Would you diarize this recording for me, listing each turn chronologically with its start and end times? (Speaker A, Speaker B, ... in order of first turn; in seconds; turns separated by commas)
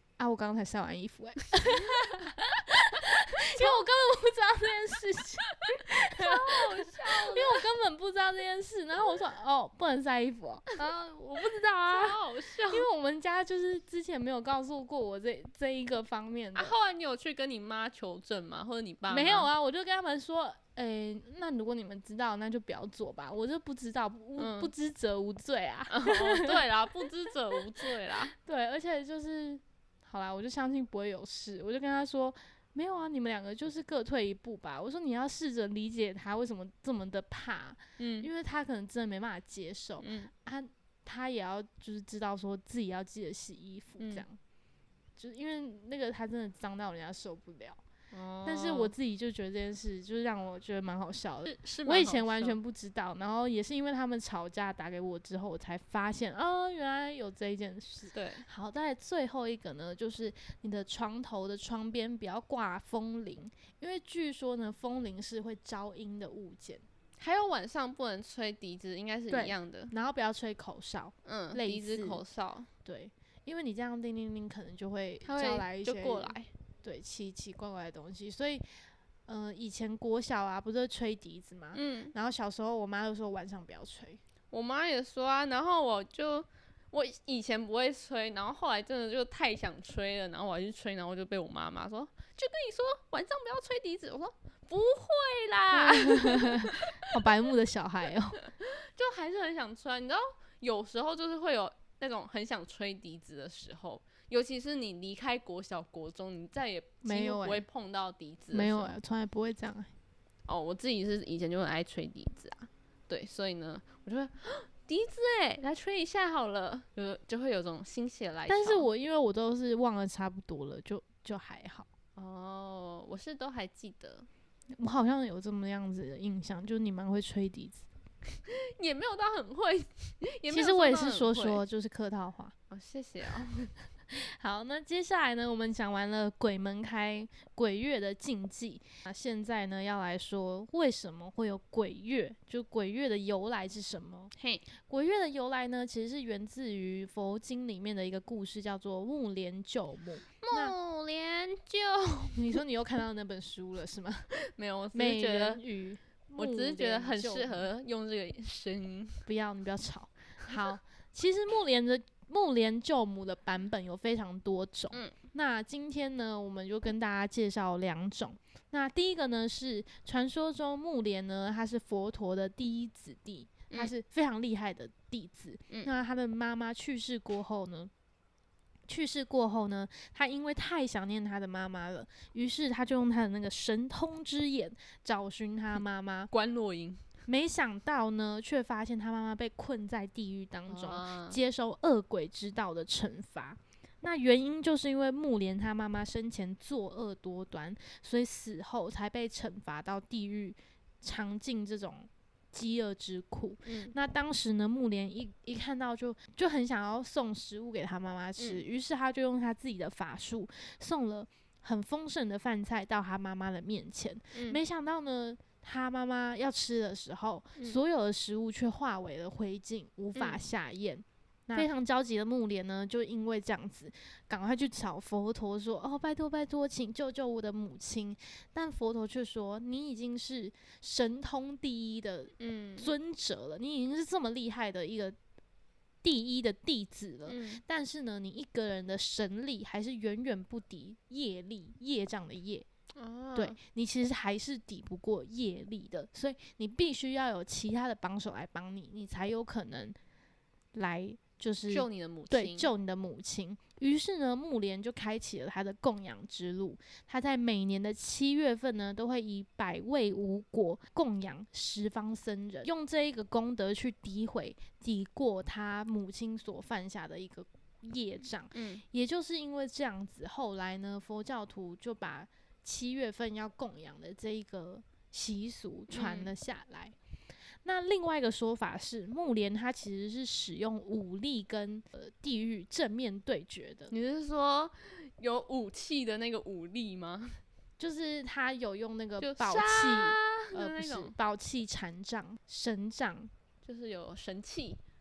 Speaker A: 0.2-16.7, Speaker B: 3.5-3.9, Speaker B: 5.7-7.7, Speaker B: 11.9-12.9, Speaker B: 16.6-19.5, Speaker A: 19.1-26.6, Speaker B: 24.4-24.7, Speaker B: 25.9-28.3, Speaker A: 28.3-44.4, Speaker B: 38.0-38.3, Speaker B: 40.0-40.3, Speaker B: 44.0-44.2, Speaker A: 45.2-47.8, Speaker B: 48.1-48.9, Speaker A: 48.5-66.8, Speaker B: 51.4-52.6, Speaker B: 58.1-58.5, Speaker B: 67.2-69.9, Speaker A: 69.3-72.2, Speaker B: 71.2-72.7, Speaker A: 72.8-78.6, Speaker B: 75.2-76.5, Speaker A: 79.3-84.2, Speaker B: 81.7-82.1, Speaker B: 84.5-97.2, Speaker A: 95.7-98.4, Speaker B: 98.4-109.0, Speaker A: 107.0-107.7, Speaker A: 108.5-109.9, Speaker B: 110.5-118.9, Speaker A: 118.5-121.9, Speaker B: 122.2-124.3, Speaker A: 124.8-127.9, Speaker B: 128.5-131.6, Speaker A: 130.5-132.6, Speaker B: 132.7-133.7, Speaker A: 134.1-144.3, Speaker B: 144.3-144.7, Speaker A: 144.8-150.7, Speaker B: 150.4-152.6, Speaker A: 152.3-154.3, Speaker B: 154.4-155.6, Speaker A: 154.9-157.7, Speaker B: 156.4-159.2, Speaker A: 159.3-177.9, Speaker A: 178.9-186.3, Speaker B: 186.3-187.0, Speaker A: 187.3-235.2, Speaker B: 190.7-191.4, Speaker B: 203.7-203.9, Speaker B: 208.4-208.6, Speaker B: 214.3-214.6, Speaker B: 220.2-220.4, Speaker B: 232.4-232.9, Speaker A: 236.0-242.7, Speaker B: 237.3-237.6, Speaker B: 243.0-243.6, Speaker A: 243.3-250.0, Speaker A: 250.7-276.9, Speaker B: 251.7-252.7, Speaker B: 268.5-268.8, Speaker B: 275.9-276.3, Speaker A: 277.6-283.9, Speaker B: 283.9-287.4, Speaker A: 287.8-293.3, Speaker B: 289.2-291.1, Speaker B: 293.6-294.8